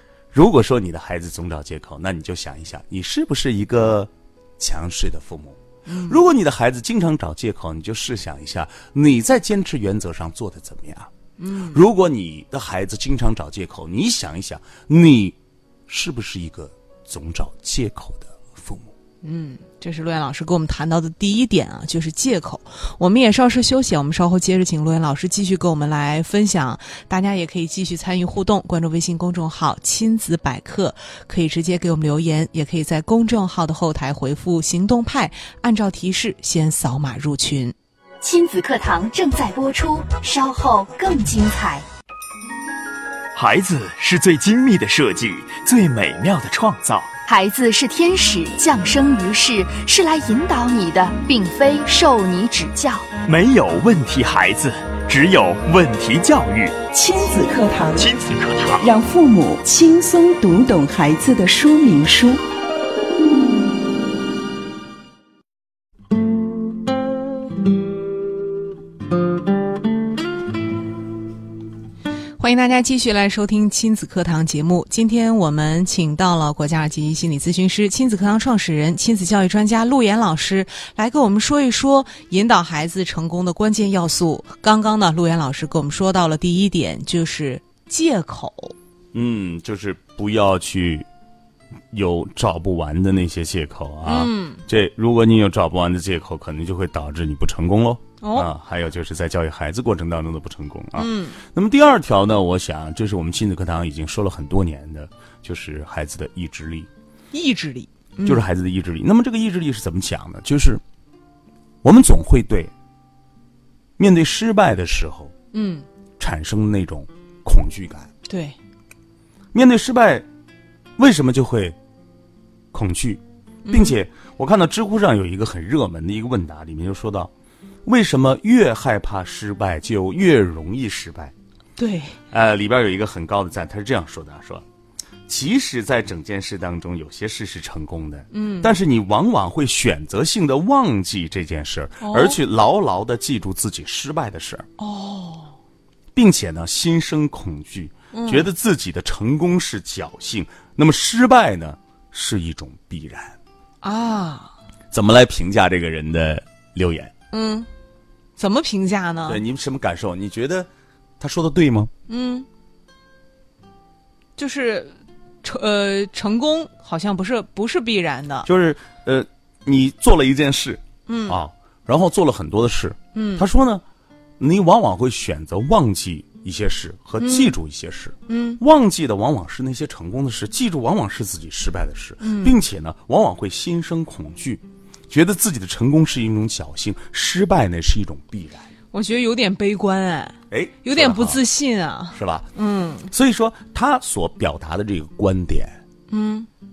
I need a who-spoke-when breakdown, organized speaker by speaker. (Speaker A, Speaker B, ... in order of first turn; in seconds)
Speaker A: 0.3-11.1, 11.7-15.4, 15.9-18.9, 89.1-91.1, 91.9-106.9, 108.2-110.8, 111.8-112.7, 114.0-115.3, 116.2-118.1, 119.5-120.2, 121.0-121.8, 122.7-127.3, 127.8-131.3, 132.3-134.6, 135.3-144.7, 146.1-153.4, 154.9-157.1, 159.2-160.7, 161.2-161.9, 168.4-173.8, 174.4-188.7, 190.5-191.4, 192.1-192.5, 193.1-195.8
Speaker B: 5.8-6.2, 11.4-11.8, 19.2-37.7, 72.4-88.7, 94.0-94.6, 98.2-98.5, 100.9-101.4, 107.3-108.4, 115.5-115.8, 118.3-118.6, 123.6-124.0, 131.8-132.2, 138.3-138.7, 142.0-142.4, 144.8-145.6, 148.1-148.5, 153.8-154.5, 157.3-157.7, 158.4-159.4, 162.1-162.5, 164.3-168.5, 171.1-171.4, 173.1-173.5, 177.2-177.6, 178.3-178.6, 182.2-182.6, 188.9-193.1, 196.1-196.5
Speaker C: 38.2-41.8, 47.3-53.1
Speaker D: 43.3-47.1, 53.2-56.8, 58.0-58.9
Speaker E: 56.9-58.1, 58.8-62.4